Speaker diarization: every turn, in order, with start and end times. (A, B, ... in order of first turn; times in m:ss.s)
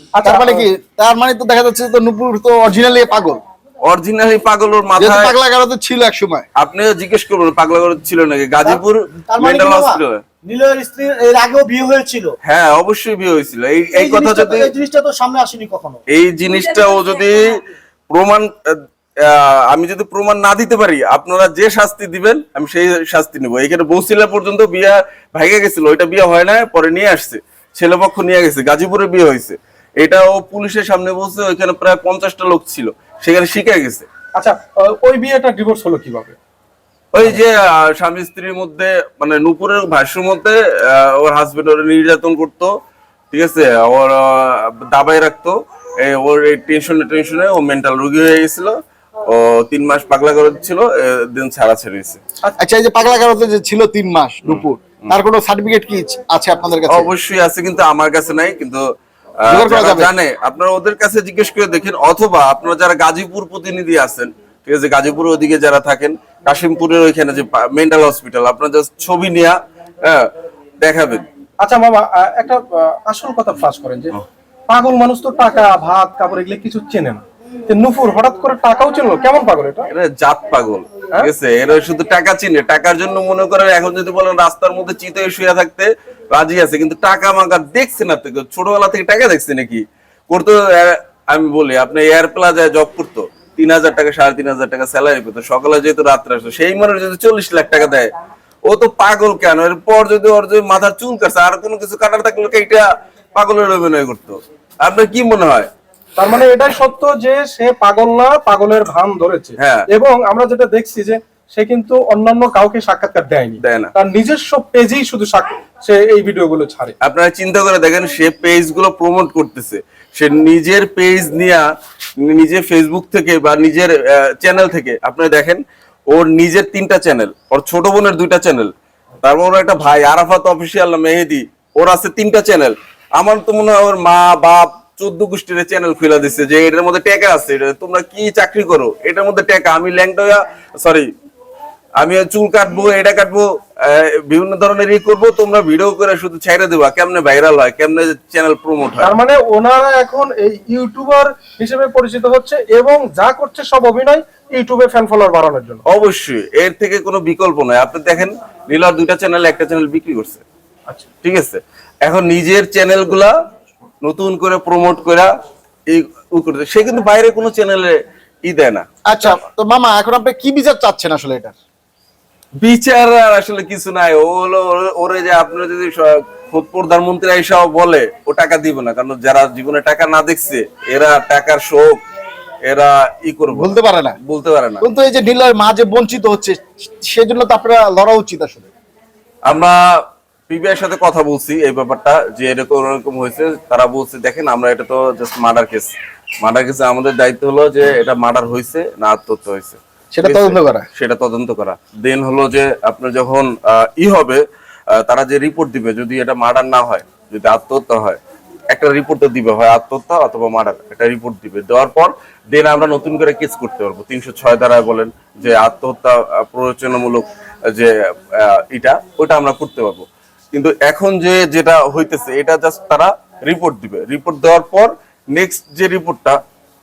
0:00.2-0:00.6 A
0:00.2-0:03.4 B
0:03.8-0:05.4 C
0:05.0-0:06.4 B
0:06.6-0:10.2 C
0:08.7-0:12.4 A
0:12.4-0:14.7 C
0:13.9-0:16.0 A
0:16.1-0:17.6 C
0:18.1-0:34.1 C
0:34.4-0:36.4 D
0:37.1-0:42.7 C
0:43.3-0:52.2 C
0:52.6-0:57.1 B
0:54.5-0:55.2 C
0:56.9-0:58.8 C
0:59.4-1:10.3 C
0:59.5-1:00.1 B
1:10.8-1:11.2 C
1:11.6-1:14.1 D
1:14.7-1:19.9 D
1:19.9-1:38.1 C
1:38.7-1:45.7 C
1:46.2-1:57.0 D
1:49.6-1:49.9 C
1:53.6-1:53.9 C
1:57.0-2:01.7 C
2:02.2-2:21.1 C
2:22.0-2:29.2 C
2:29.0-2:35.8 D
2:35.9-2:40.4 C
2:41.2-2:43.3 C
2:44.0-2:45.3 C
2:45.9-2:48.8 C
2:49.1-2:51.6 B
2:52.6-3:02.0 C
3:02.6-3:04.9 C
3:03.5-3:04.2 B
3:04.8-3:08.7 B
3:09.5-3:09.8 C
3:10.5-3:15.9 C
3:16.4-3:28.2 C
3:20.1-3:20.8 B
3:28.7-3:46.4 C